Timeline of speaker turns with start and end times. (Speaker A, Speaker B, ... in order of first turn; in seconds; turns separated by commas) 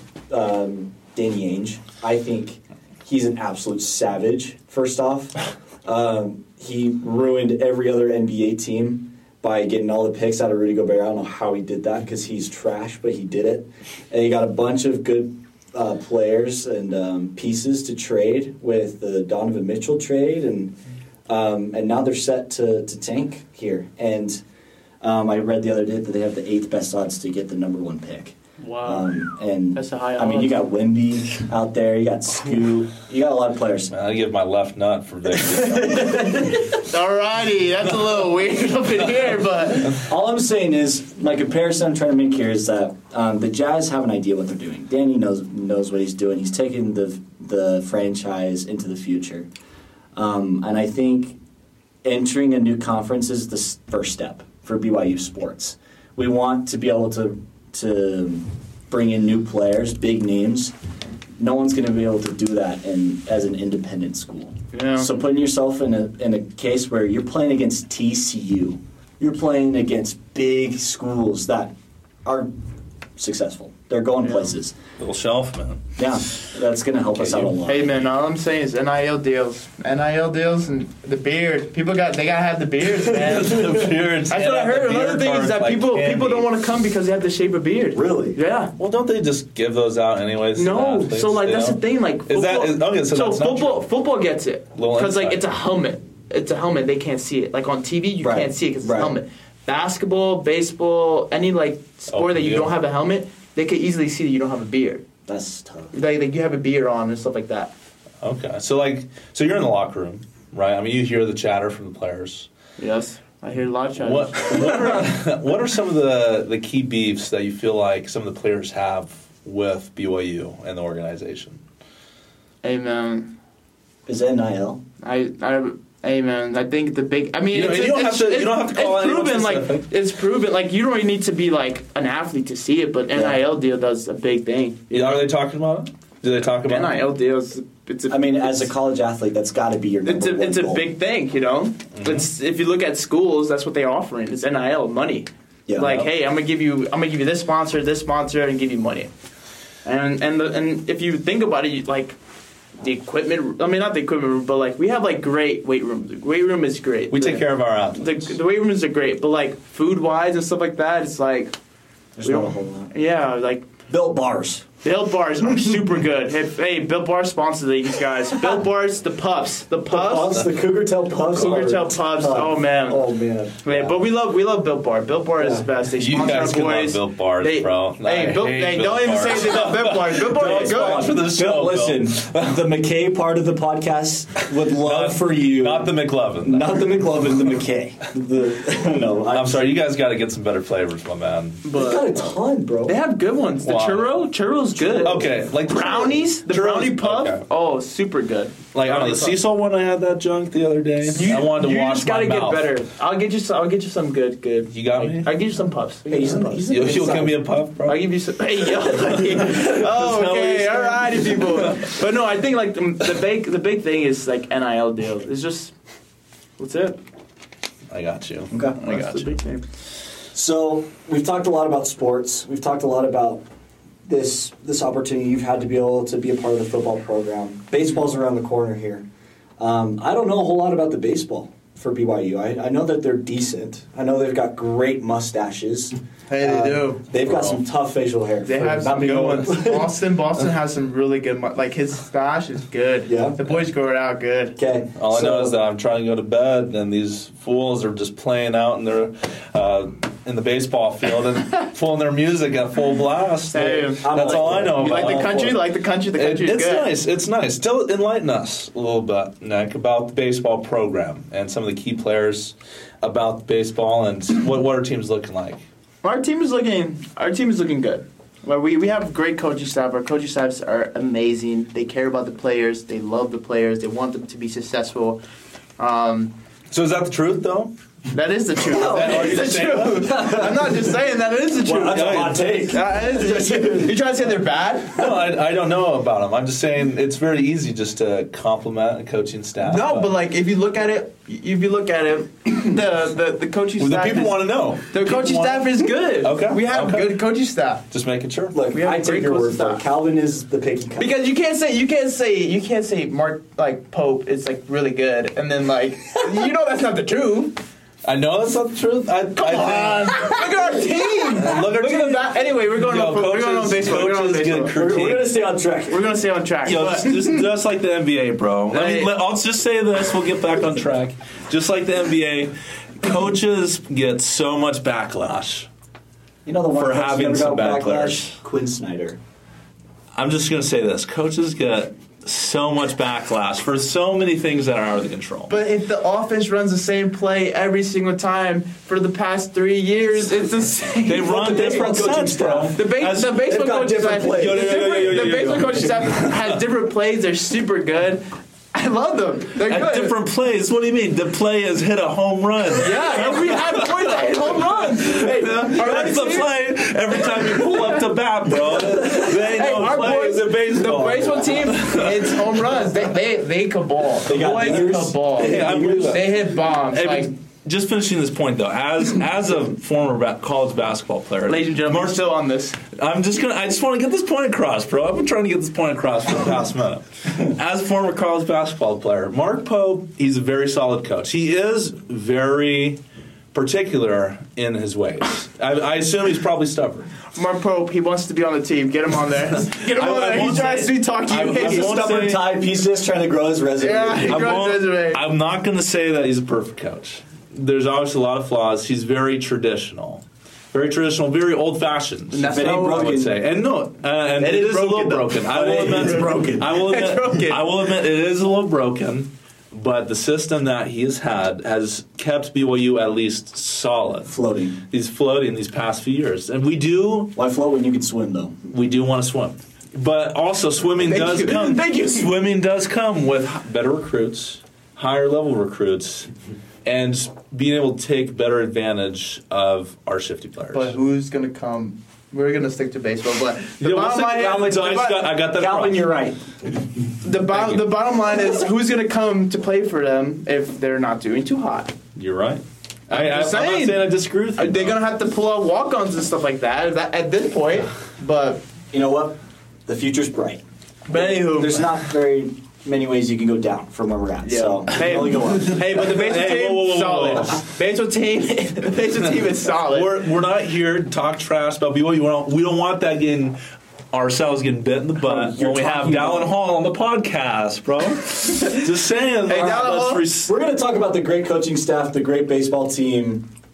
Speaker A: 0.3-20.8, Speaker A: 21.3-24.4, Speaker A: 25.0-33.9, Speaker B: 28.6-29.2, Speaker B: 29.8-30.6, Speaker C: 33.9-36.3, Speaker B: 35.5-40.0, Speaker A: 40.0-49.5, Speaker A: 50.1-51.4, Speaker A: 52.0-60.7, Speaker A: 61.4-71.7, Speaker B: 64.7-65.1, Speaker A: 72.2-72.5, Speaker A: 73.2-74.8, Speaker C: 75.0-75.9, Speaker A: 76.0-78.0, Speaker C: 77.2-77.6, Speaker B: 77.7-88.7, Speaker C: 83.1-86.5, Speaker A: 87.9-88.4, Speaker C: 88.8-93.9, Speaker B: 90.5-105.0, Speaker C: 94.8-95.5, Speaker A: 98.2-99.2, Speaker C: 102.1-102.7, Speaker A: 105.3-105.9, Speaker B: 105.9-107.7, Speaker C: 108.2-112.5, Speaker B: 112.8-115.1, Speaker C: 114.0-121.6, Speaker B: 122.6-123.3, Speaker A: 124.1-124.8, Speaker B: 125.0-135.2, Speaker C: 127.5-129.9, Speaker A: 133.1-133.4, Speaker C: 134.9-137.1, Speaker B: 136.7-138.7, Speaker A: 138.1-140.9, Speaker B: 140.1-149.1, Speaker C: 141.9-142.3, Speaker A: 145.7-146.1, Speaker B: 149.8-152.2, Speaker B: 152.8-161.5, Speaker C: 157.1-158.3, Speaker A: 162.2-162.9, Speaker B: 162.2-163.7, Speaker A: 163.9-164.7, Speaker B: 164.8-170.5, Speaker A: 169.9-174.0, Speaker B: 171.3-173.0, Speaker B: 173.6-181.2, Speaker A: 175.4-175.7, Speaker C: 175.9-182.3, Speaker A: 180.3-189.7, Speaker C: 184.8-186.9, Speaker C: 189.3-191.7, Speaker B: 191.6-192.2, Speaker A: 191.7-193.0, Speaker B: 192.9-199.4, Speaker C: 193.6-194.2, Speaker A: 194.8-195.3, Speaker C: 194.9-197.4, Speaker C: 198.7-202.7, Speaker B: 201.1-206.7, Speaker C: 204.7-205.3, Speaker A: 206.1-207.4, Speaker C: 206.7-208.1, Speaker B: 207.8-215.8, Speaker C: 208.9-211.9, Speaker B: 216.6-217.0, Speaker C: 217.9-219.4, Speaker A: 218.5-218.8, Speaker B: 218.8-219.6, Speaker A: 220.3-223.4, Speaker A: 224.0-229.1, Speaker A: 229.6-239.9, Speaker B: 236.3-237.0, Speaker C: 237.2-237.6, Speaker B: 238.4-244.6, Speaker A: 243.1-243.4, Speaker A: 244.6-245.5, Speaker C: 245.0-255.6, Speaker B: 253.5-256.9, Speaker A: 254.0-255.6, Speaker C: 256.2-265.6, Speaker B: 266.0-275.2, Speaker B: 275.8-276.3, Speaker C: 276.7-277.7, Speaker B: 278.1-285.1, Speaker A: 278.7-280.8, Speaker C: 278.8-280.4, Speaker A: 281.6-284.0, Speaker C: 281.8-282.6, Speaker C: 284.9-290.1, Speaker B: 289.6-297.8, Speaker C: 293.8-297.2, Speaker C: 297.9-298.6, Speaker A: 298.5-301.1, Speaker B: 298.7-299.8, Speaker B: 301.0-307.6, Speaker C: 308.0-310.4, Speaker B: 309.4-314.8, Speaker C: 311.4-315.4, Speaker A: 314.7-316.0, Speaker B: 315.9-317.4, Speaker C: 316.6-325.7, Speaker B: 318.7-319.1, Speaker A: 326.4-329.2, Speaker C: 326.7-328.4, Speaker C: 330.1-335.5, Speaker B: 335.5-341.9, Speaker C: 341.1-343.4, Speaker A: 341.3-345.0, Speaker B: 342.7-350.2, Speaker C: 344.3-346.6, Speaker C: 349.6-362.8, Speaker B: 352.8-356.5, Speaker B: 357.2-358.0, Speaker B: 358.7-367.3, Speaker A: 364.2-366.2, Speaker C: 365.4-372.3, Speaker B: 371.5-372.8, Speaker C: 372.9-383.0, Speaker C: 383.5-387.1, Speaker B: 387.4-392.0, Speaker C: 389.6-392.5, Speaker A: 391.4-394.6, Speaker B: 393.8-395.2, Speaker C: 394.3-414.3, Speaker B: 402.3-403.2, Speaker A: 402.5-403.4, Speaker B: 404.4-407.7, Speaker A: 405.5-406.7, Speaker A: 414.2-414.8, Speaker C: 414.9-417.3, Speaker A: 417.4-418.6, Speaker C: 418.7-426.3, Speaker B: 421.0-422.3, Speaker C: 426.9-430.9, Speaker B: 430.7-435.2, Speaker C: 433.8-436.2, Speaker A: 435.5-436.4, Speaker B: 437.2-441.9, Speaker C: 437.5-437.9, Speaker C: 442.1-445.0, Speaker B: 443.1-448.6, Speaker A: 448.9-450.6, Speaker B: 451.1-451.9, Speaker A: 451.1-455.9, Speaker B: 454.4-460.1, Speaker C: 455.6-457.6, Speaker C: 459.7-463.6, Speaker C: 464.1-470.5, Speaker A: 465.2-466.5, Speaker B: 469.5-470.3, Speaker A: 469.5-473.5